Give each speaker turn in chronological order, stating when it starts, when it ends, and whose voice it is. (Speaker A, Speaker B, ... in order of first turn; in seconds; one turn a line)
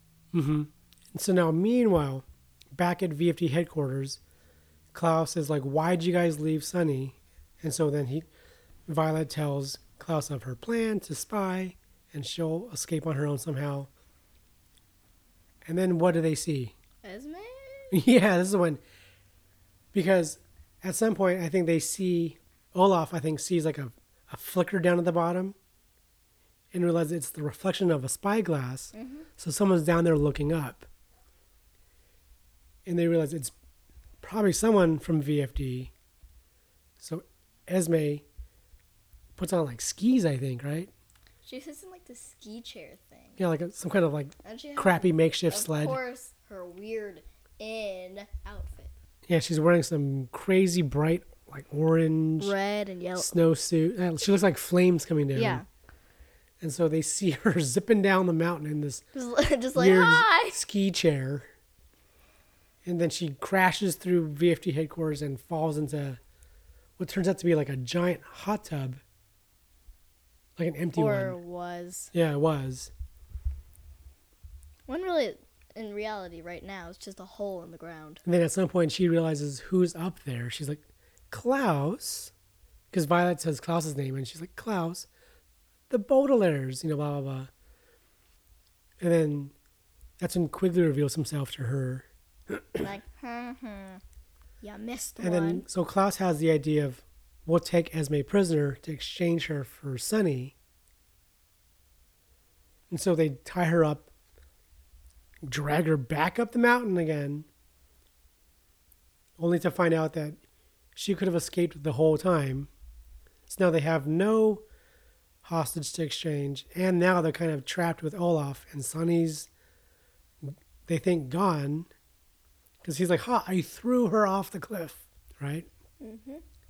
Speaker A: 0.3-4.2
Speaker A: 4.9-8.2
Speaker A: 8.9-13.9
Speaker A: 15.7-16.7
Speaker B: 17.0-17.9
Speaker A: 17.9-18.8
Speaker A: 19.9-25.6
Speaker A: 26.7-30.9
Speaker B: 28.9-29.3
Speaker A: 32.9-33.5
Speaker A: 34.2-35.9
Speaker A: 37.0-38.2
Speaker A: 39.4-40.9
Speaker B: 41.4-43.4
Speaker A: 43.4-46.0
Speaker B: 44.4-48.9
Speaker A: 49.3-52.5
Speaker B: 52.4-53.3
Speaker A: 53.1-55.6
Speaker B: 55.3-55.6
Speaker A: 56.6-59.0
Speaker B: 59.1-60.6
Speaker A: 59.7-61.5
Speaker A: 62.9-66.2
Speaker A: 67.0-69.0
Speaker A: 70.6-71.4
Speaker B: 70.9-72.1
Speaker A: 72.1-72.9
Speaker B: 74.9-78.2
Speaker A: 78.2-82.3
Speaker A: 82.9-85.1
Speaker A: 85.9-87.5
Speaker A: 89.0-89.5
Speaker A: 90.2-92.8
Speaker B: 92.8-94.0
Speaker B: 94.6-95.7
Speaker A: 95.2-100.5
Speaker A: 102.9-104.1
Speaker A: 105.5-107.5
Speaker A: 109.4-110.4
Speaker A: 111.0-112.7
Speaker A: 113.5-114.6
Speaker A: 115.4-119.5
Speaker A: 120.4-121.9
Speaker A: 122.8-125.7
Speaker B: 126.0-126.4